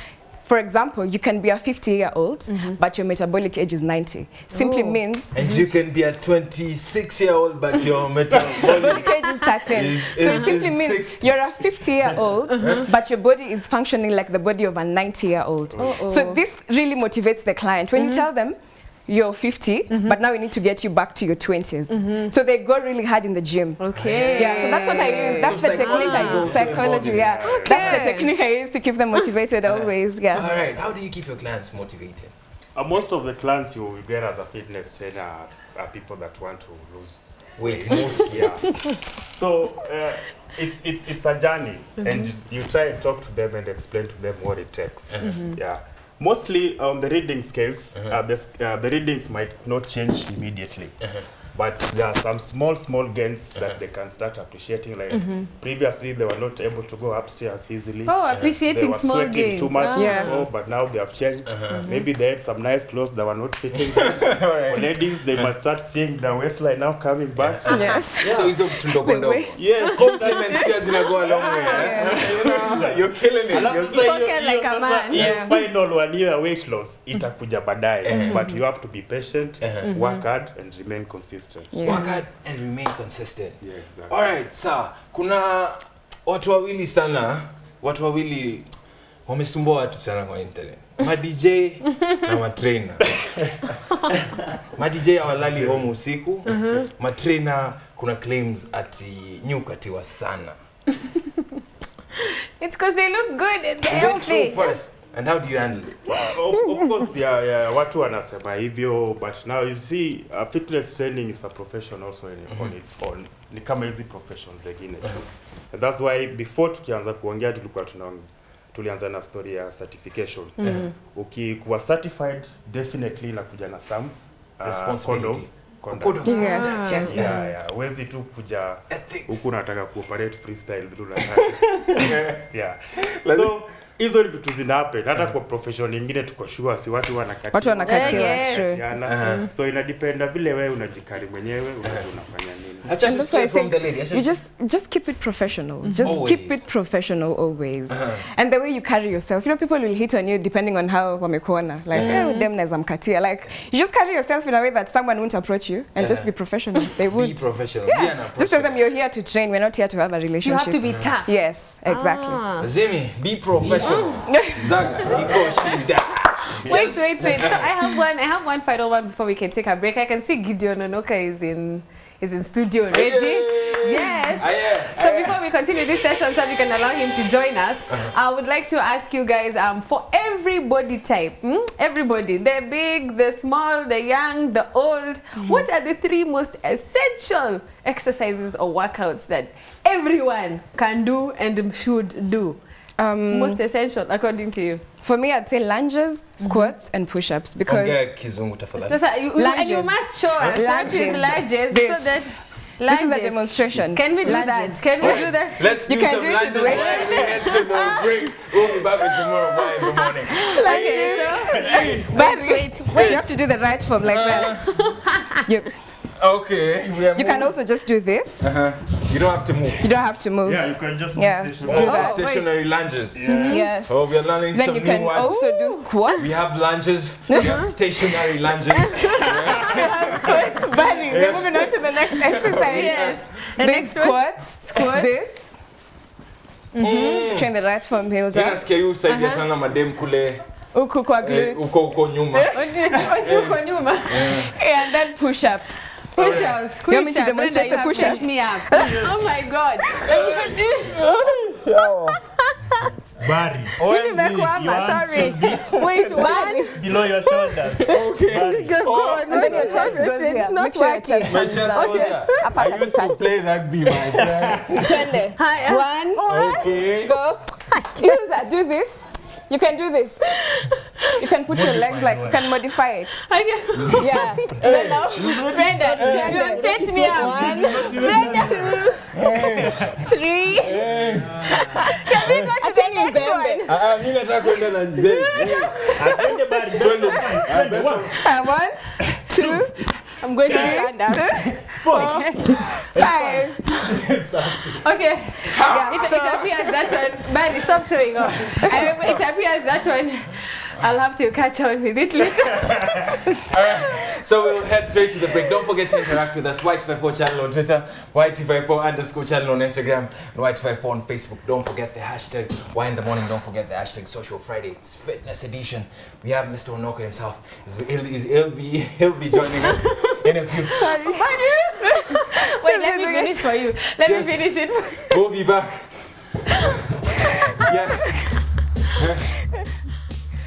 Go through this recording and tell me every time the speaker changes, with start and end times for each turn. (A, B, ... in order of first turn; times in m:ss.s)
0:00.4-0:05.3 A
0:02.5-0:02.8 B
0:04.5-0:05.6 B
0:05.3-0:09.0 C
0:08.3-0:09.1 D
0:08.6-0:30.5 A
0:09.0-0:09.3 B
0:09.7-0:11.4 C
0:10.2-0:10.5 B
0:12.6-0:12.9 C
0:15.8-0:16.4 B
0:18.0-0:18.2 B
0:19.9-0:20.2 B
0:21.9-0:22.3 B
0:23.8-0:26.7 B
0:24.0-0:27.4 C
0:26.3-0:28.1 D
0:27.4-0:28.3 B
0:29.6-0:32.3 C
0:32.7-0:38.6 D
0:37.6-0:38.6 C
0:39.2-0:51.0 D
0:42.0-0:42.3 B
0:45.1-0:45.4 C
0:45.2-0:45.6 B
0:51.5-1:08.5 D
0:55.1-0:55.5 B
0:58.0-1:00.4 B
0:59.9-1:00.5 A
1:01.5-1:01.8 C
1:01.7-1:02.0 B
1:03.7-1:05.5 C
1:07.4-1:14.2 C
1:07.7-1:12.4 A
1:09.6-1:22.0 D
1:13.6-1:15.3 B
1:15.1-1:15.6 A
1:18.0-1:18.4 C
1:19.6-1:19.9 C
1:19.8-1:20.2 B
1:21.7-1:22.2 A
1:21.8-1:28.7 C
1:23.6-1:24.3 D
1:29.2-1:33.2 C
1:34.7-1:40.6 C
1:35.5-1:35.8 D
1:36.5-1:36.8 B
1:42.6-1:44.7 B
1:43.9-1:46.1 C
1:46.2-2:22.9 D
1:52.5-1:52.7 C
2:00.6-2:00.9 B
2:00.6-2:00.9 C
2:04.6-2:07.5 C
2:06.2-2:06.8 A
2:06.2-2:07.4 B
2:08.9-2:09.4 C
2:11.4-2:12.4 C
2:13.0-2:13.5 C
2:17.5-2:18.8 A
2:17.8-2:19.5 B
2:19.0-2:19.4 C
2:22.8-2:24.4 C
2:23.0-2:42.4 A
2:25.8-2:26.1 B
2:26.0-2:26.7 C
2:27.9-2:28.2 C
2:31.9-2:32.2 C
2:32.0-2:32.5 B
2:36.0-2:38.8 C
2:40.4-2:42.7 B
2:40.8-2:41.1 C
2:42.6-2:47.7 C
2:43.6-2:44.4 B
2:44.3-2:44.6 A
2:45.1-2:45.8 B
2:46.6-3:12.6 B
2:52.9-2:55.4 C
3:05.4-3:05.6 A
3:13.0-3:13.6 A
3:13.3-3:14.8 B
3:15.0-3:18.0 A
3:16.4-3:16.7 B
3:17.6-3:19.0 C
3:18.8-3:25.8 B
3:19.4-3:27.6 A
3:25.0-3:31.6 C
3:26.6-3:33.2 B
3:30.3-3:34.8 A
3:31.5-3:32.0 D
3:32.9-3:33.2 C
3:34.0-3:34.7 C
3:34.3-3:35.4 B
3:35.4-3:35.7 A
3:36.2-3:37.5 C
3:37.1-3:38.5 A
3:38.4-3:39.9 C
3:39.8-3:42.3 A
3:40.4-3:42.4 D
3:41.6-3:45.4 C
3:41.8-3:42.4 B
3:43.1-3:43.6 D
3:43.3-3:43.6 B
3:43.4-3:46.2 A
3:45.4-3:46.2 B
3:46.2-3:50.3 C
3:47.3-3:47.7 A
3:47.3-3:47.7 B
3:48.7-3:49.3 B
3:49.7-3:55.6 A
3:50.2-3:50.4 B
3:51.1-3:53.2 C
3:52.4-3:55.1 B
3:56.7-3:57.3 B
3:56.8-3:57.5 C
3:57.2-3:58.6 A
3:58.3-4:00.4 C
3:59.0-3:59.4 B
4:00.7-4:02.7 A
4:01.2-4:04.5 C
4:02.5-4:04.5 B
4:04.3-4:09.0 A
4:06.1-4:11.1 B
4:06.2-4:06.6 C
4:08.7-4:09.1 D
4:10.0-4:12.2 C
4:11.8-4:12.8 B
4:13.2-4:18.9 D
4:13.8-4:16.8 B
4:15.4-4:17.0 A
4:17.8-4:19.9 C
4:18.5-4:23.1 B
4:19.2-4:23.2 A
4:21.2-4:25.2 C
4:23.8-4:24.8 D
4:24.8-4:26.7 B
4:25.2-4:30.3 A
4:26.2-4:27.2 C
4:27.7-4:28.2 B
4:31.2-4:33.2 A
4:31.5-4:32.4 D
4:33.2-4:39.2 B
4:34.0-4:34.6 A
4:34.6-4:36.8 C
4:35.2-4:39.0 D
4:35.8-4:38.5 A
4:39.1-4:39.9 C
4:39.6-4:40.0 D
4:40.0-4:40.7 A
4:40.0-4:40.8 B
4:40.6-4:42.6 C
4:41.0-4:41.3 D
4:41.5-4:43.7 B
4:41.8-4:43.7 A
4:43.6-4:46.0 C
4:45.1-4:46.2 B
4:45.5-4:46.0 A
4:46.0-4:48.1 D
4:46.7-4:48.2 C
4:48.1-4:49.8 A
4:49.0-4:49.6 D
4:50.2-4:52.7 B
4:50.4-4:54.8 D
4:50.4-4:53.6 A
4:54.8-5:03.2 B
4:55.5-4:56.2 C
4:55.7-4:56.7 A
5:03.5-5:20.9 C
5:19.6-5:20.1 B
5:20.7-5:21.4 A
5:20.8-5:25.2 B
5:21.9-5:23.5 A
5:24.0-5:24.5 C
5:25.1-5:25.9 C
5:27.6-5:28.2 C
5:29.0-5:29.4 C